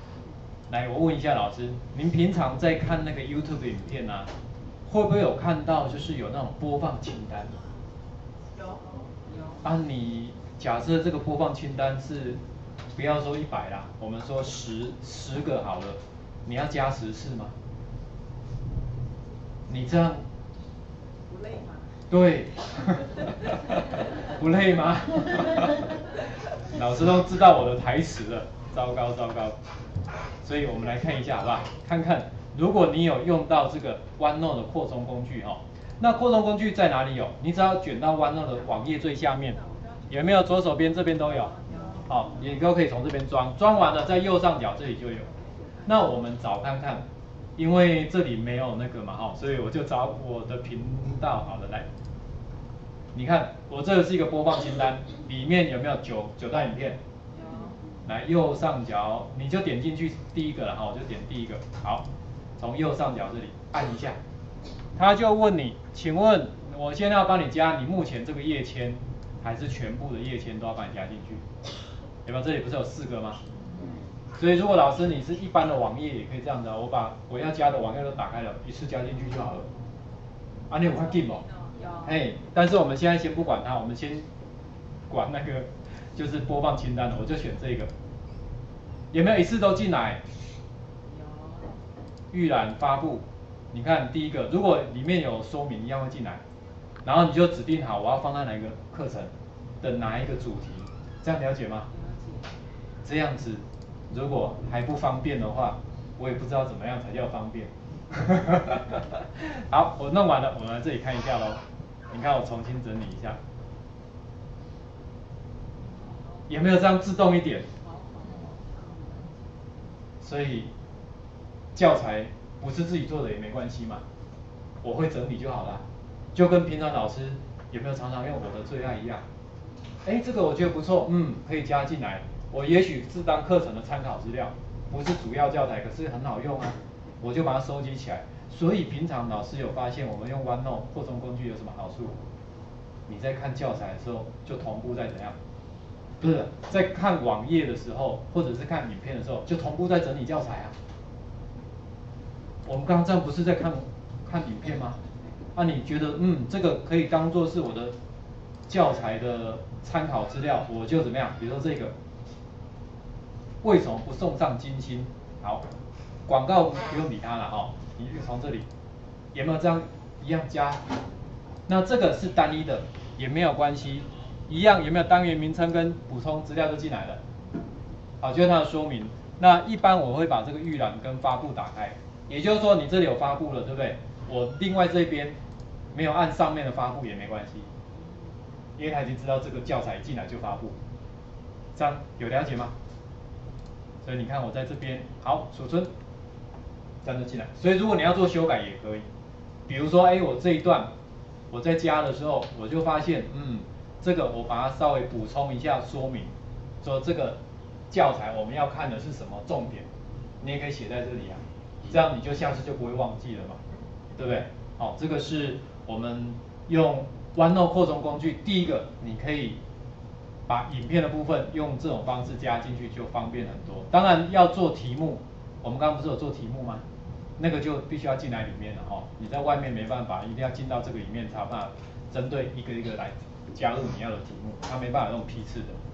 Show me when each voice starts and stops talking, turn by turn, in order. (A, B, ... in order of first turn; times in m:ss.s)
0:00.7-0:04.3 A
0:04.9-0:07.5 A
0:09.6-0:12.4 A
0:13.0-0:17.5 A
0:19.7-0:20.2 A
0:21.3-0:21.9 B
0:22.1-0:26.0 A
0:26.7-0:29.6 A
0:30.4-0:45.3 A
0:39.6-0:40.0 B
0:41.5-0:42.3 B
0:45.8-0:47.0 A
0:47.6-0:51.9 A
0:53.1-0:57.0 A
0:57.4-0:57.8 B
0:58.0-1:02.0 A
1:02.6-1:04.2 A
1:05.0-1:11.4 A
1:12.3-1:13.4 A
1:14.4-1:19.7 A
1:20.7-1:21.5 A
1:21.4-1:22.1 B
1:22.0-1:24.3 A
1:25.1-1:27.9 A
1:29.1-1:30.2 A
1:31.1-1:31.7 B
1:32.3-1:36.4 A
1:37.0-1:41.9 A
1:41.9-1:42.5 B
1:43.0-1:53.4 A
1:56.5-1:57.7 A
1:57.8-1:59.4 B
2:00.2-2:00.7 A
2:01.8-2:04.0 A
2:04.8-2:09.2 A
2:10.0-2:22.2 A
2:23.1-2:25.4 A
2:26.2-2:30.8 A
2:32.7-2:35.0 A
2:35.6-2:37.9 A
2:38.7-2:41.9 A
2:43.6-2:45.6 A
2:46.3-2:48.7 A
2:49.3-2:50.8 A
2:51.7-2:57.2 A
2:58.2-3:05.4 A
3:05.9-3:07.7 A
3:08.8-3:10.8 A
3:11.8-3:12.7 A
3:14.0-3:15.9 A
3:17.0-3:19.1 A
3:19.7-3:20.9 A
3:21.5-3:26.3 A
3:26.8-3:27.4 A
3:27.9-3:29.9 A
3:30.4-3:33.6 A
3:34.2-3:39.6 A
3:40.5-3:46.8 A
3:47.4-3:55.8 A